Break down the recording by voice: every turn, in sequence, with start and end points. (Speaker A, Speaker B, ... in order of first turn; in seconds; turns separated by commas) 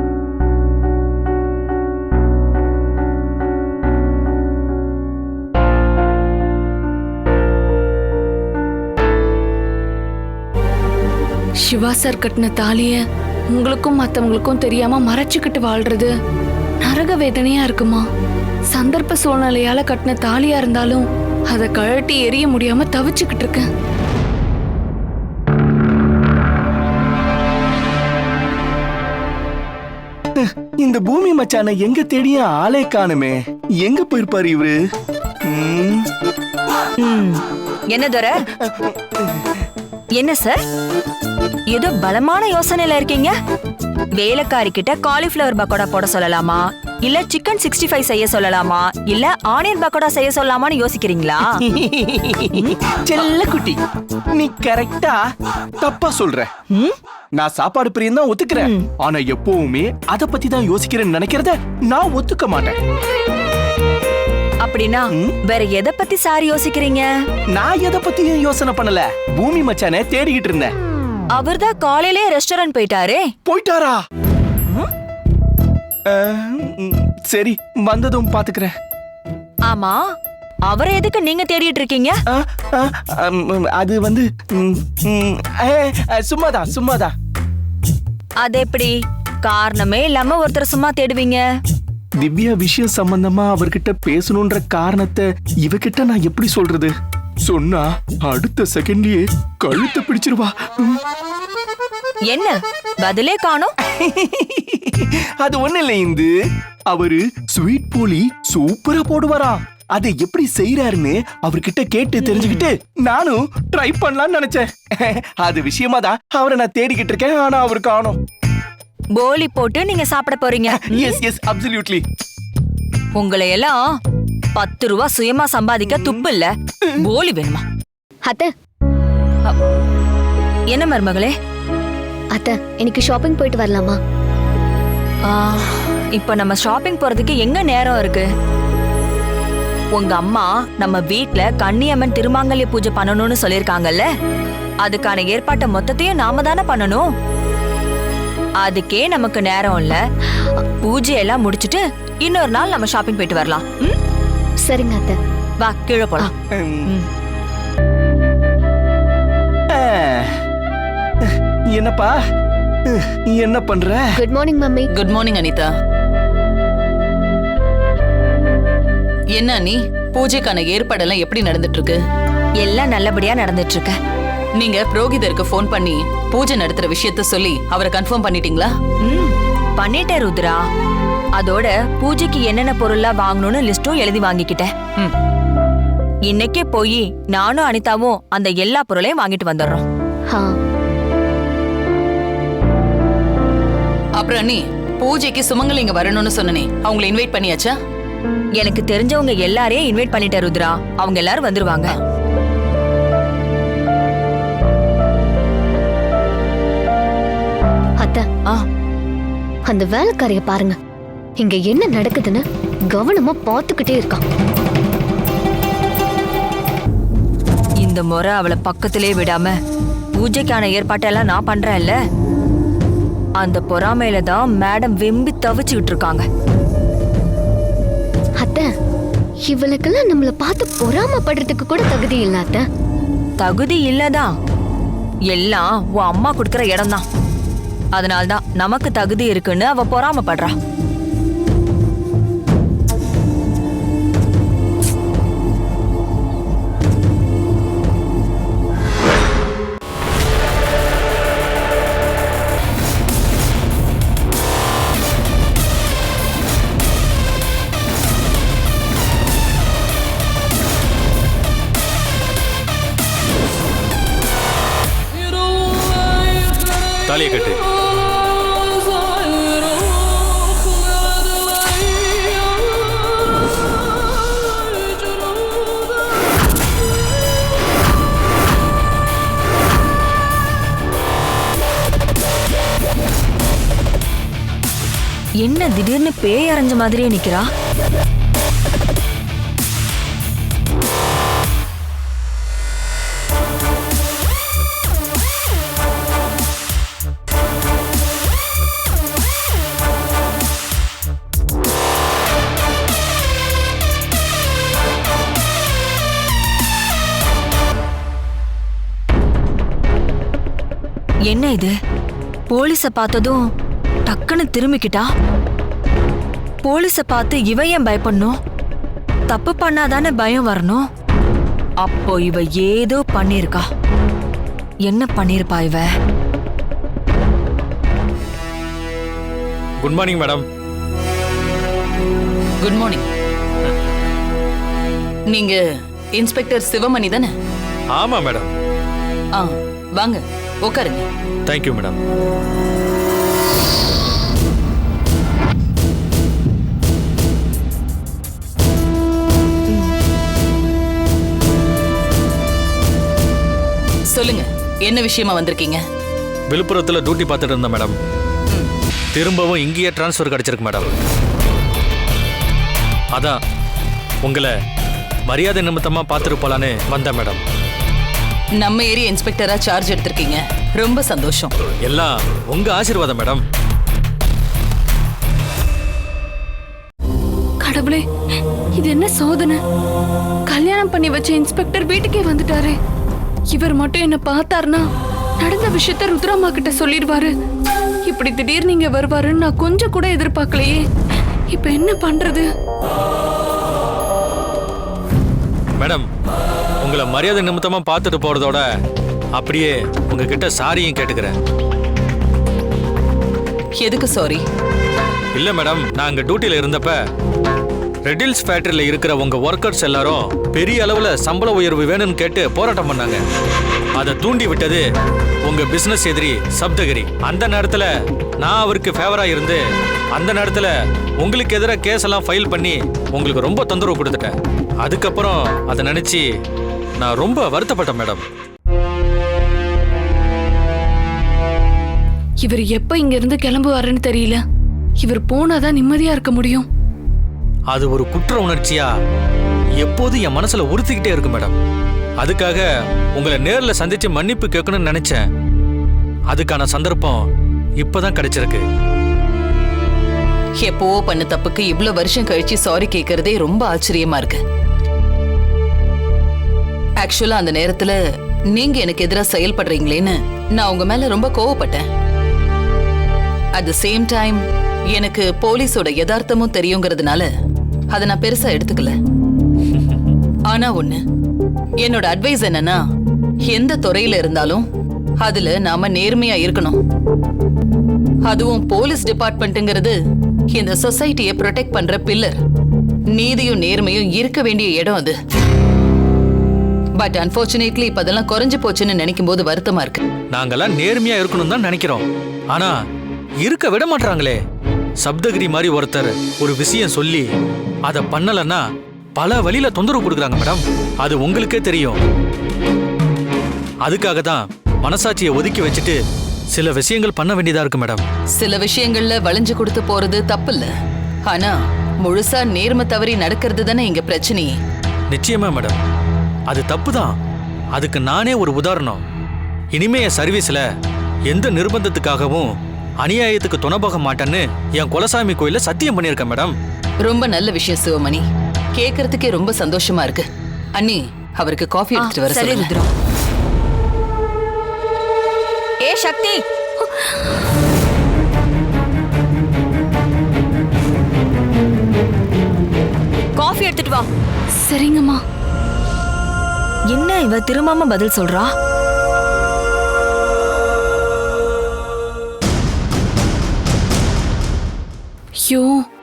Speaker A: 11.6-13.0, Speaker A: 13.5-16.1, Speaker A: 16.8-18.1, Speaker A: 18.7-23.7, Speaker B: 30.4-34.8, Speaker B: 35.5-36.1, Speaker C: 37.0-38.5, Speaker B: 38.6-39.5, Speaker C: 40.1-40.6, Speaker C: 41.7-43.3, Speaker C: 44.1-51.6, Speaker B: 51.7-53.8, Speaker C: 52.5-52.8, Speaker B: 54.3-55.2, Speaker B: 55.8-56.5, Speaker C: 56.7-57.0, Speaker B: 57.4-62.8, Speaker C: 58.6-58.9, Speaker C: 64.6-67.1, Speaker B: 67.5-70.7, Speaker C: 71.3-73.3, Speaker B: 73.4-74.0, Speaker B: 76.1-78.7, Speaker C: 79.7-80.0, Speaker C: 80.7-82.2, Speaker B: 82.3-87.1, Speaker C: 88.4-91.4, Speaker B: 92.2-96.9, Speaker B: 97.5-101.0, Speaker C: 102.3-103.7, Speaker B: 103.8-106.3, Speaker B: 106.9-118.2, Speaker C: 112.2-112.6, Speaker C: 119.1-121.2, Speaker B: 120.7-122.0, Speaker C: 123.2-123.8, Speaker C: 124.5-127.6, Speaker B: 125.9-126.2, Speaker C: 130.7-131.3, Speaker D: 132.3-134.0, Speaker C: 135.2-138.3, Speaker C: 139.9-144.1, Speaker C: 144.8-147.0, Speaker C: 148.6-150.0, Speaker C: 150.8-153.9, Speaker D: 154.6-155.2, Speaker C: 155.6-156.3, Speaker B: 156.5-156.9, Speaker B: 159.7-160.3, Speaker B: 161.2-162.1, Speaker B: 162.9-164.0, Speaker D: 164.2-164.9, Speaker E: 164.9-165.7, Speaker E: 169.4-172.0, Speaker C: 172.6-173.9, Speaker E: 174.6-178.7, Speaker C: 179.0-180.6, Speaker C: 181.3-184.7, Speaker C: 186.3-189.8, Speaker E: 194.2-197.7, Speaker C: 198.6-201.9, Speaker D: 208.0-208.2, Speaker D: 209.7-210.8, Speaker D: 211.4-214.2, Speaker C: 217.8-219.5, Speaker C: 220.2-221.9, Speaker C: 223.4-226.2, Speaker D: 228.4-228.7, Speaker D: 229.5-232.6, Speaker C: 233.4-234.3, Speaker C: 235.3-237.0, Speaker C: 237.9-240.5, Speaker F: 267.0-267.6, Speaker C: 285.4-287.5, Speaker C: 311.3-311.7, Speaker C: 312.5-313.4, Speaker C: 314.1-315.1, Speaker C: 316.6-318.3, Speaker C: 319.3-320.8, Speaker C: 321.8-323.6, Speaker C: 324.9-325.9, Speaker F: 329.8-330.4, Speaker E: 332.6-333.1, Speaker E: 335.3-335.6, Speaker E: 336.1-337.3, Speaker F: 337.9-338.5, Speaker E: 339.3-341.1, Speaker F: 341.4-342.0, Speaker E: 354.1-355.8, Speaker F: 356.5-358.0, Speaker F: 359.1-360.9, Speaker F: 364.2-364.5, Speaker F: 365.3-367.4, Speaker E: 368.6-371.5, Speaker F: 371.8-373.4, Speaker A: 377.6-378.0, Speaker A: 378.8-379.6, Speaker A: 380.5-382.8, Speaker A: 383.5-384.8, Speaker A: 385.4-387.3, Speaker A: 388.0-390.8, Speaker A: 391.5-392.4, Speaker F: 395.8-396.1, Speaker F: 396.8-398.6, Speaker F: 399.3-401.4, Speaker E: 403.8-404.4, Speaker F: 405.3-407.0, Speaker F: 408.0-413.2, Speaker F: 413.9-414.8, Speaker F: 415.4-419.6, Speaker F: 420.1-426.2, Speaker F: 427.0-428.2, Speaker A: 432.4-434.4, Speaker A: 435.0-436.6, Speaker F: 437.7-438.9, Speaker F: 439.8-441.6, Speaker F: 442.2-442.6, Speaker F: 443.1-445.2, Speaker F: 446.3-447.2, Speaker F: 447.8-448.6, Speaker E: 450.6-454.4, Speaker E: 457.0-458.0, Speaker E: 458.5-461.8, Speaker E: 463.6-464.4, Speaker E: 464.9-467.3, Speaker E: 467.9-468.9, Speaker E: 470.5-471.0, Speaker E: 471.8-472.8, Speaker E: 473.5-474.6, Speaker E: 475.2-476.8, Speaker E: 478.3-479.9, Speaker E: 480.5-482.3, Speaker E: 483.1-485.1, Speaker E: 487.0-490.0, Speaker F: 490.3-492.7, Speaker F: 493.4-494.4, Speaker F: 495.0-497.3, Speaker F: 497.9-498.6, Speaker F: 499.2-502.0, Speaker F: 503.8-506.0, Speaker F: 506.5-508.0, Speaker E: 508.4-510.7, Speaker E: 511.3-514.5, Speaker F: 515.1-515.8, Speaker F: 516.5-517.1, Speaker F: 517.7-519.0, Speaker F: 519.7-520.6, Speaker F: 521.3-522.5, Speaker F: 523.0-526.5, Speaker E: 527.0-528.2, Speaker E: 528.8-530.2, Speaker E: 530.8-532.7, Speaker C: 532.0-532.9, Speaker C: 535.8-536.4, Speaker C: 543.4-544.0, Speaker A: 544.6-545.2, Speaker C: 546.9-548.5, Speaker A: 555.5-555.8